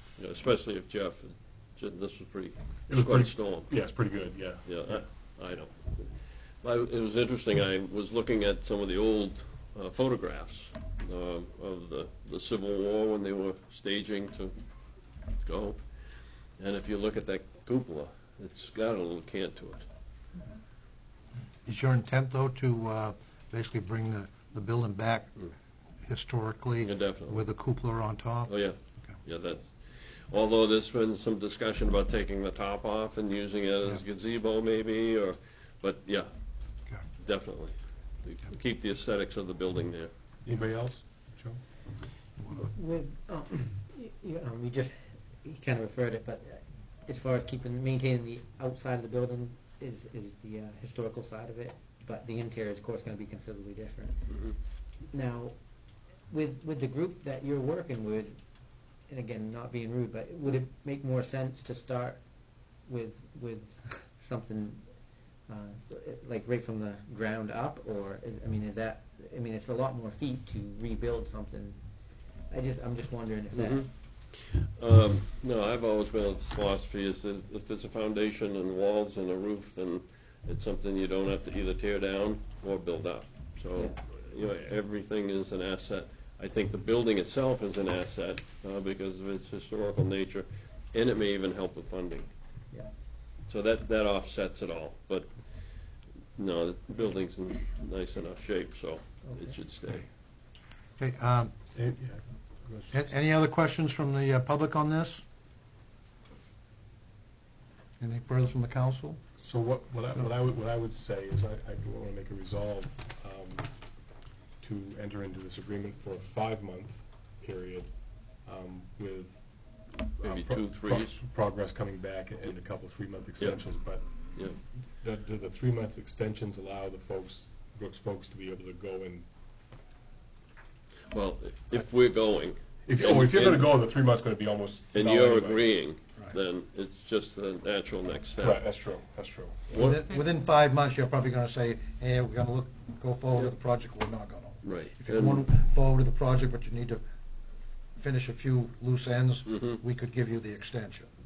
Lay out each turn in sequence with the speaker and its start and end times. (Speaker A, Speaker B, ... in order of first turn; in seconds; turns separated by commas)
Speaker A: 0.2-3.7, Speaker B: 2.9-4.8, Speaker A: 4.7-14.6, Speaker A: 15.4-15.8, Speaker A: 16.6-19.9, Speaker C: 21.6-25.4, Speaker C: 26.0-28.5, Speaker A: 26.8-27.4, Speaker A: 28.5-36.3, Speaker A: 37.2-40.1, Speaker B: 40.4-41.6, Speaker D: 42.5-54.3, Speaker D: 55.1-55.5, Speaker D: 56.3-58.4, Speaker D: 59.1-62.2, Speaker D: 62.9-64.8, Speaker D: 65.5-71.8, Speaker D: 72.5-73.9, Speaker A: 73.5-92.3, Speaker A: 93.5-95.3, Speaker A: 96.4-100.1, Speaker D: 99.2-99.6, Speaker C: 101.0-101.5, Speaker B: 101.7-103.0, Speaker C: 102.9-105.2, Speaker C: 108.0-109.2, Speaker B: 109.4-113.7, Speaker B: 114.6-117.9, Speaker B: 118.5-119.4, Speaker A: 120.2-121.2, Speaker B: 120.2-124.0, Speaker B: 125.0-129.3, Speaker A: 131.1-133.7, Speaker B: 132.9-135.7, Speaker A: 134.9-138.7, Speaker B: 138.4-139.7, Speaker A: 139.7-140.0, Speaker C: 139.7-147.0, Speaker A: 144.6-145.5, Speaker C: 148.0-151.1, Speaker A: 149.5-149.8